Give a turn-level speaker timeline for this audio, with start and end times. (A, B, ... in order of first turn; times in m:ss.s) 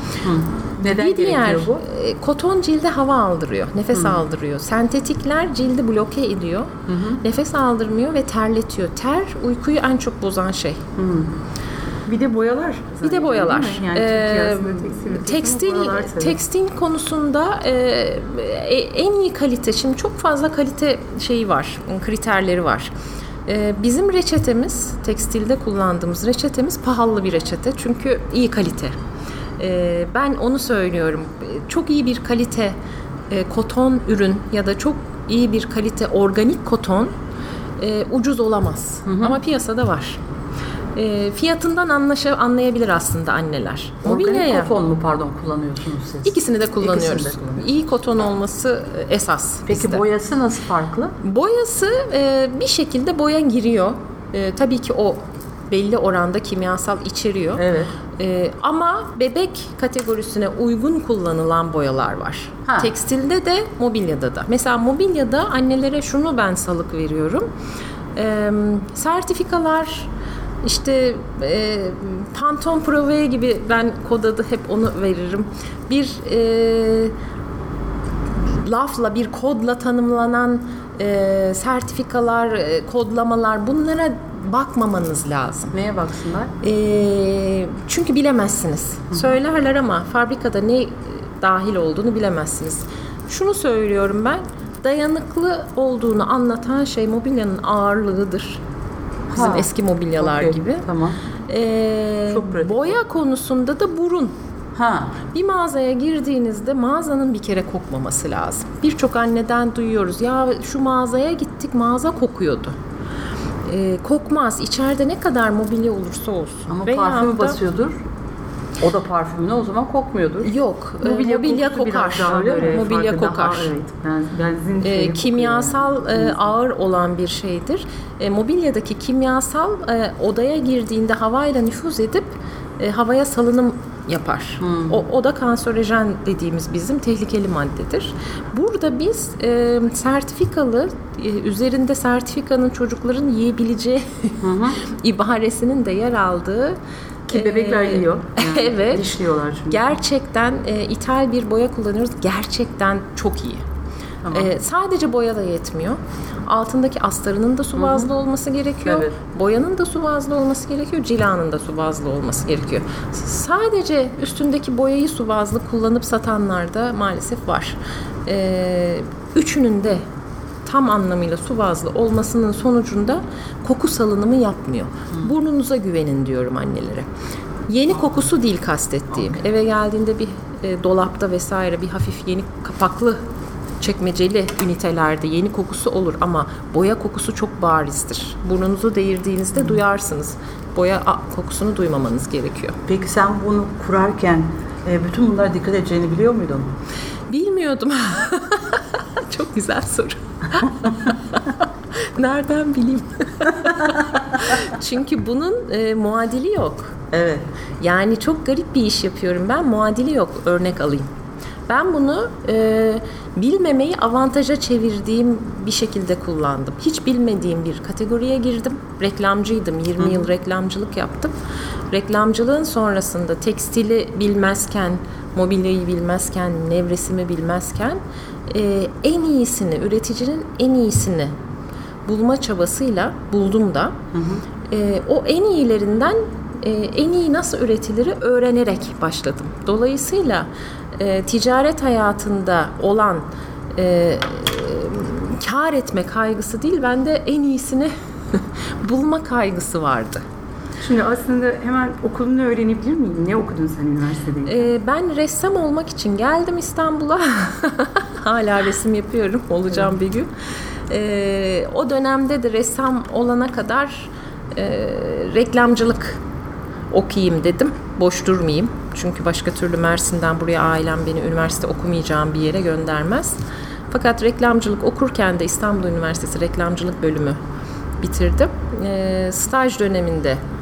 0:00.2-0:01.8 A
0:00.8-0:10.8 B
0:03.9-0:04.2 A
0:06.9-0:07.2 A
0:11.0-0:11.3 A
0:12.0-0:16.4 C
0:13.0-0:22.9 B
0:23.4-0:29.0 B
0:29.6-0:32.8 B
0:33.3-0:37.1 B
0:37.8-0:40.2 B
0:39.0-0:39.4 A
0:40.9-0:44.7 B
0:44.0-0:47.8 A
0:46.2-0:50.0 B
0:49.7-0:51.2 A
0:51.2-0:57.6 B
0:57.6-0:57.9 A
0:58.2-1:07.5 B
1:02.6-1:02.9 A
1:08.1-1:10.1 B
1:10.6-1:17.1 B
1:18.5-1:25.7 B
1:25.7-1:26.5 A
1:26.6-1:38.6 B
1:39.3-1:41.2 A
1:39.3-1:40.8 B
1:41.5-1:44.3 B
1:42.3-1:42.9 A
1:44.7-1:45.2 A
1:45.3-1:52.8 B
1:53.6-1:57.6 B
1:56.7-1:58.0 A
1:58.8-2:00.5 A
2:00.4-2:03.7 B
2:01.0-2:06.4 C
2:02.1-2:02.7 A
2:04.8-2:26.8 B
2:14.6-2:15.0 A
2:24.4-2:24.8 A
2:27.3-2:29.8 C
2:27.3-2:29.0 B
2:29.7-2:33.6 B
2:34.2-2:34.5 A
2:34.3-2:50.0 B
2:37.8-2:38.1 A
2:38.8-2:39.1 A
2:50.6-2:57.1 B
2:57.7-3:03.2 B
3:03.8-3:12.8 B
3:12.9-3:16.7 A
3:17.3-3:21.4 B
3:22.0-3:27.0 B
3:27.1-3:27.4 A
3:27.8-3:31.1 B
3:31.7-3:41.3 B
3:41.9-3:51.3 B
3:52.0-3:54.0 B
3:54.1-3:54.4 A
3:54.7-4:10.2 B
4:10.8-4:14.7 C
4:14.4-4:20.3 B
4:20.9-4:26.2 B
4:26.9-4:33.4 B
4:33.9-4:37.4 B
4:38.0-4:40.4 B